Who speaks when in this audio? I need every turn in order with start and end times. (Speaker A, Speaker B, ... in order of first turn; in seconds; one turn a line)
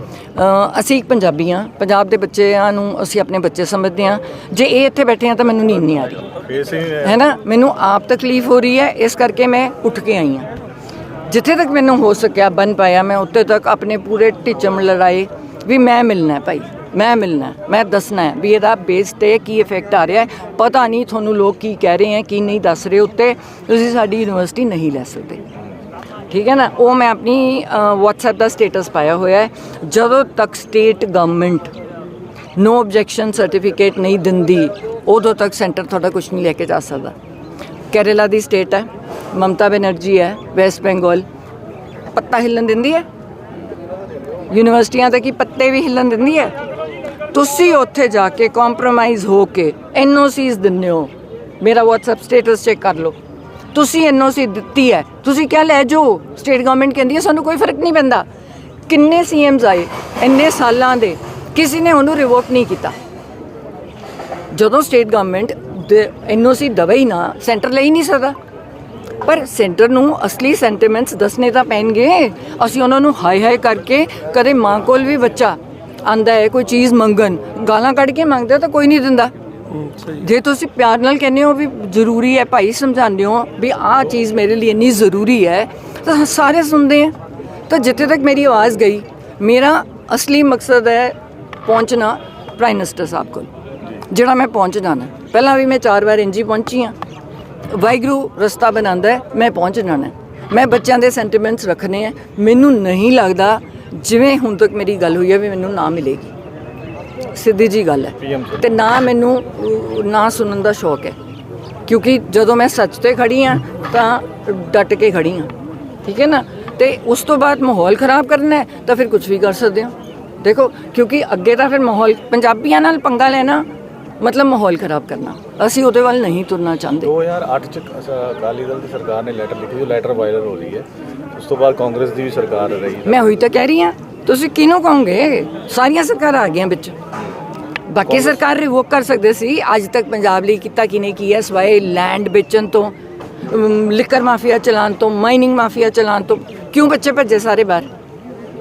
Speaker A: 0.3-6.4
Speaker B: 6.5-7.1
Speaker A: 7.0-10.5
Speaker A: 11.3-25.4
Speaker A: 26.3-31.7
Speaker A: 32.5-37.1
Speaker A: 37.9-41.2
Speaker A: 42.1-43.0
Speaker A: 44.5-46.5
Speaker A: 47.3-53.2
Speaker A: 53.7-58.3
Speaker A: 58.9-63.0
Speaker A: 64.5-68.4
Speaker A: 69.2-79.3
Speaker A: 80.0-87.2
Speaker A: 87.7-96.9
Speaker A: 97.7-106.3
Speaker A: 107.3-111.2
Speaker B: 108.2-108.6
Speaker A: 111.9-115.5
Speaker A: 116.0-123.7
Speaker A: 124.2-127.1
Speaker B: 127.0-133.3
Speaker A: 133.1-136.9
Speaker A: 137.9-142.9
Speaker A: 143.4-147.9